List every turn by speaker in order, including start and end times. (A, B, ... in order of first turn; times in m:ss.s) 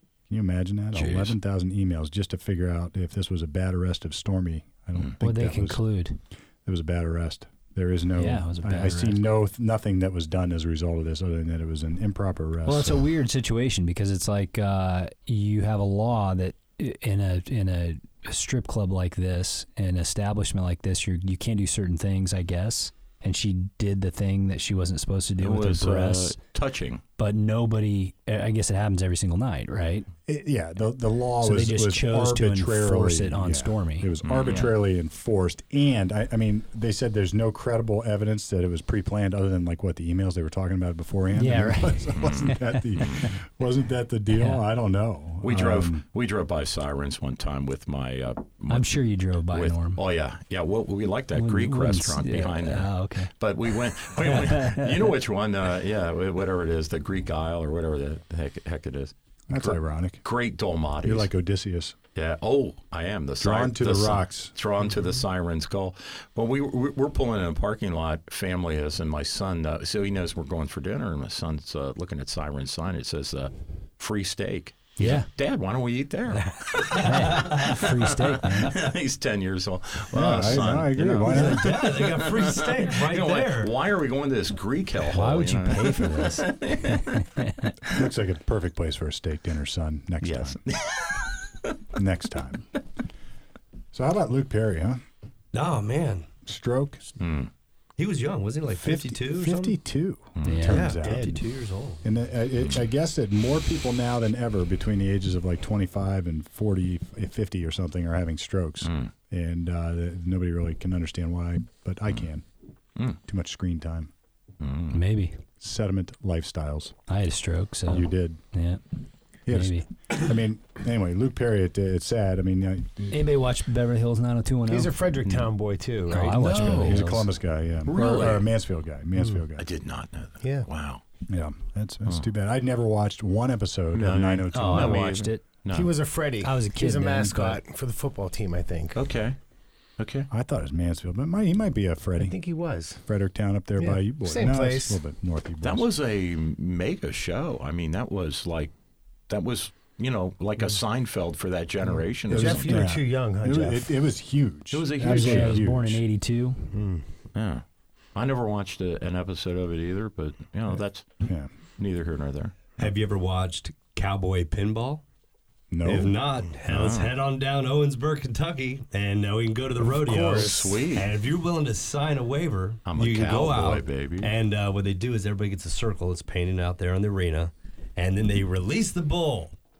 0:00.3-0:05.8 A
0:00.9-0:01.4 B
0:05.2-0:06.2 C
0:06.6-0:13.0 A
0:08.2-0:09.2 C
0:12.6-0:26.4 C
0:25.4-0:27.0 B
0:27.2-0:30.1 C
0:30.3-0:46.0 A
0:31.4-0:34.1 C
0:34.2-0:34.7 B
0:41.3-0:43.3 C
0:42.1-0:43.3 B
0:44.3-0:44.6 C
0:45.4-0:49.0 B
0:48.7-0:50.0 C
0:49.5-1:01.3 B
0:51.3-0:53.3 C
0:54.2-0:55.1 C
0:59.5-1:00.2 A
1:01.0-1:02.0 A
1:02.1-1:27.3 B
1:03.4-1:04.5 A
1:15.0-1:15.3 C
1:17.0-1:18.8 C
1:17.1-1:17.5 D
1:20.1-1:21.9 A
1:21.2-1:23.7 D
1:25.0-1:27.7 C
1:27.8-1:30.6 A
1:30.2-1:31.8 B
1:31.9-1:32.7 A
1:33.9-1:35.0 A
1:35.5-1:36.3 D
1:36.4-1:37.1 A
1:37.2-1:37.5 B
1:38.0-1:39.8 D
1:38.8-1:41.4 A
1:40.4-1:40.9 B
1:40.4-1:40.9 C
1:40.7-1:42.0 D
1:42.0-1:52.4 A
1:48.8-1:49.1 B
1:53.2-1:54.1 A
1:54.6-1:55.0 B
1:54.9-1:55.4 C
1:55.6-1:57.0 A
1:57.1-1:58.8 C
1:57.9-1:58.4 A
1:59.4-2:03.2 A
1:59.5-1:59.9 C
2:03.1-2:04.9 C
2:04.7-2:06.6 E
2:06.1-2:07.3 C
2:06.3-2:07.2 B
2:06.5-2:09.7 A
2:07.8-2:08.5 B
2:09.6-2:11.0 B
2:10.4-2:10.7 E
2:11.3-2:15.2 A
2:13.9-2:15.9 B
2:14.5-2:15.4 C
2:15.7-2:19.0 E
2:16.4-2:17.6 C
2:18.9-2:19.4 B
2:20.0-2:20.3 B
2:20.3-2:22.4 A
2:22.2-2:23.0 E
2:23.1-2:25.9 A
2:23.8-2:25.0 E
2:25.6-2:28.7 B
2:29.3-2:32.9 B
2:32.3-2:33.9 E
2:32.3-2:36.0 A
2:34.7-2:35.6 B
2:35.0-2:36.8 C
2:36.7-2:37.0 E
2:37.3-2:37.6 B
2:38.1-2:41.1 B
2:41.2-2:41.5 A
2:41.8-2:42.5 B
2:42.8-2:45.0 D
2:45.7-2:46.2 A
2:45.8-2:59.6 D
2:46.7-2:47.1 B
2:50.1-2:51.1 B
2:50.1-2:50.8 E
2:52.8-2:54.3 B